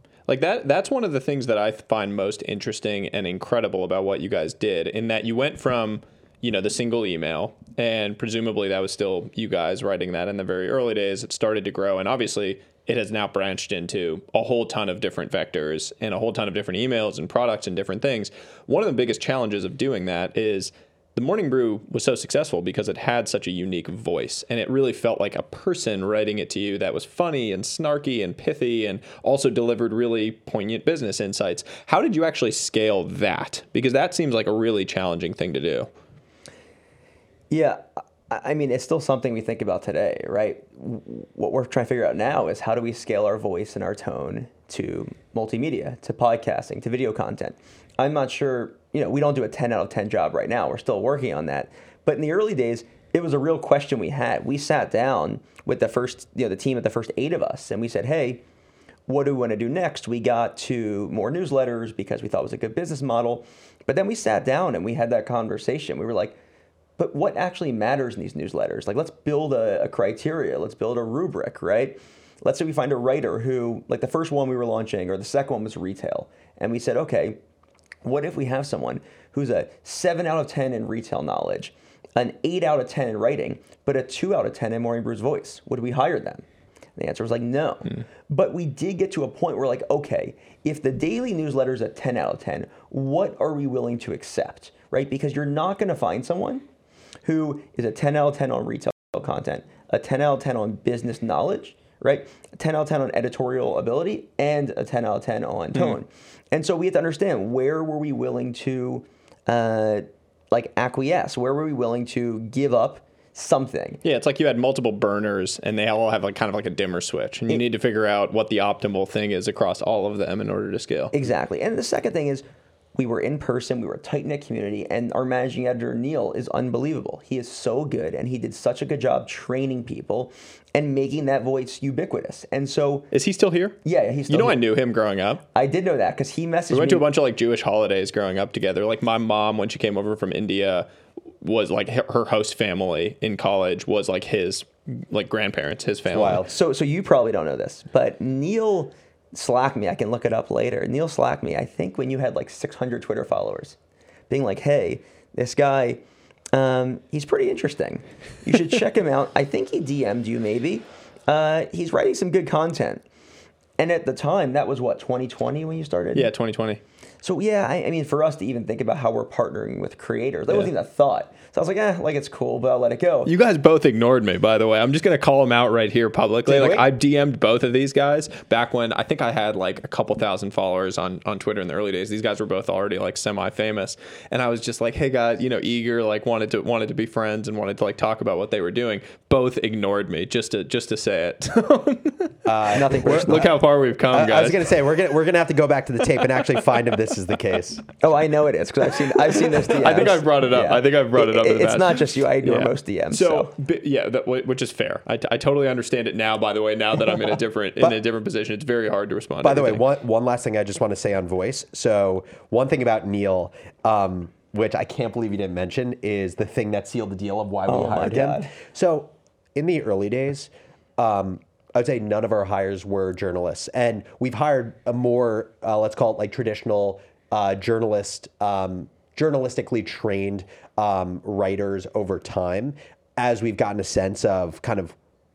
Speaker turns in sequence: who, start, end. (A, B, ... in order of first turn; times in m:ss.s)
0:00.3-0:35.9 A
0:37.5-0:58.4 B
0:59.1-1:06.4 B
1:07.0-1:17.4 B
1:18.0-1:26.4 B
1:27.0-1:36.6 B
1:37.2-1:54.0 B
1:54.0-2:01.1 A
2:01.1-2:02.4 B
2:03.0-2:13.1 B
2:13.1-2:15.4 A
2:13.8-2:14.6 B
2:15.5-2:17.0 B
2:16.7-2:20.9 A
2:21.4-2:26.4 A
2:26.1-2:26.5 C
2:26.4-2:33.8 B
2:34.3-2:36.0 B
2:36.5-2:43.0 B
2:43.8-2:46.3 B
2:46.1-2:46.8 A
2:47.2-2:53.3 B
2:53.2-3:14.7 A
2:56.4-2:56.9 C
3:12.4-3:13.5 C
3:12.7-3:13.5 B
3:14.1-3:17.8 C
3:18.0-3:23.5 B
3:19.7-3:29.8 A
3:29.4-3:55.0 C
3:37.7-3:38.5 B